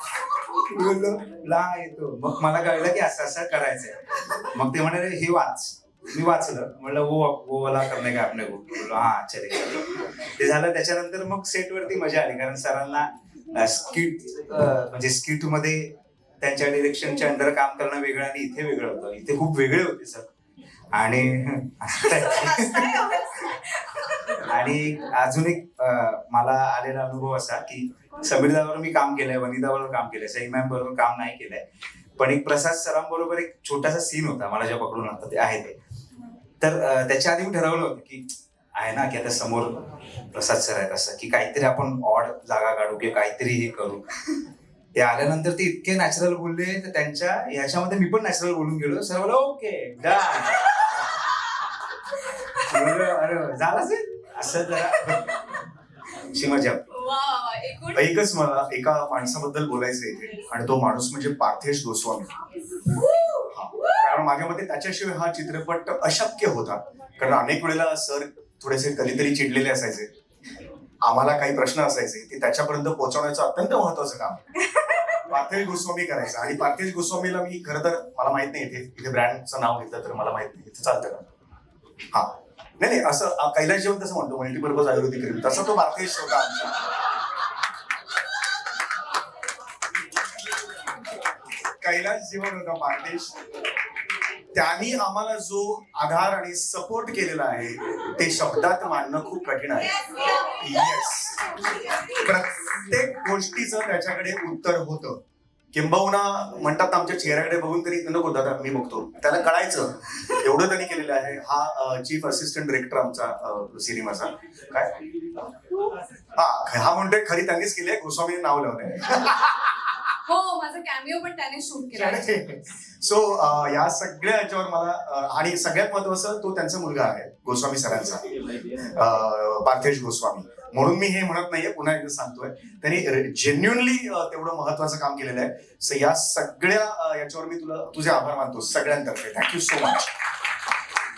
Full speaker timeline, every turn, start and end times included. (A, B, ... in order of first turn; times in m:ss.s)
0:00.6-0:20.3 A
0:20.9-0:23.0 A
0:22.0-0:24.4 B
0:24.5-0:31.6 A
0:32.2-0:35.8 A
0:36.6-0:44.0 A
0:45.0-0:50.6 A
0:52.7-0:55.4 A
0:56.3-0:56.8 A
0:56.9-0:58.0 B
0:57.9-1:02.3 C
1:02.9-1:03.5 B
1:03.5-1:10.1 C
1:11.0-1:14.4 C
1:15.3-1:21.3 C
1:22.1-1:26.9 C
1:31.8-1:33.4 C
1:34.5-1:45.2 C
1:45.7-1:55.0 C
1:56.4-1:59.6 C
2:00.3-2:02.5 B
2:01.9-2:20.2 C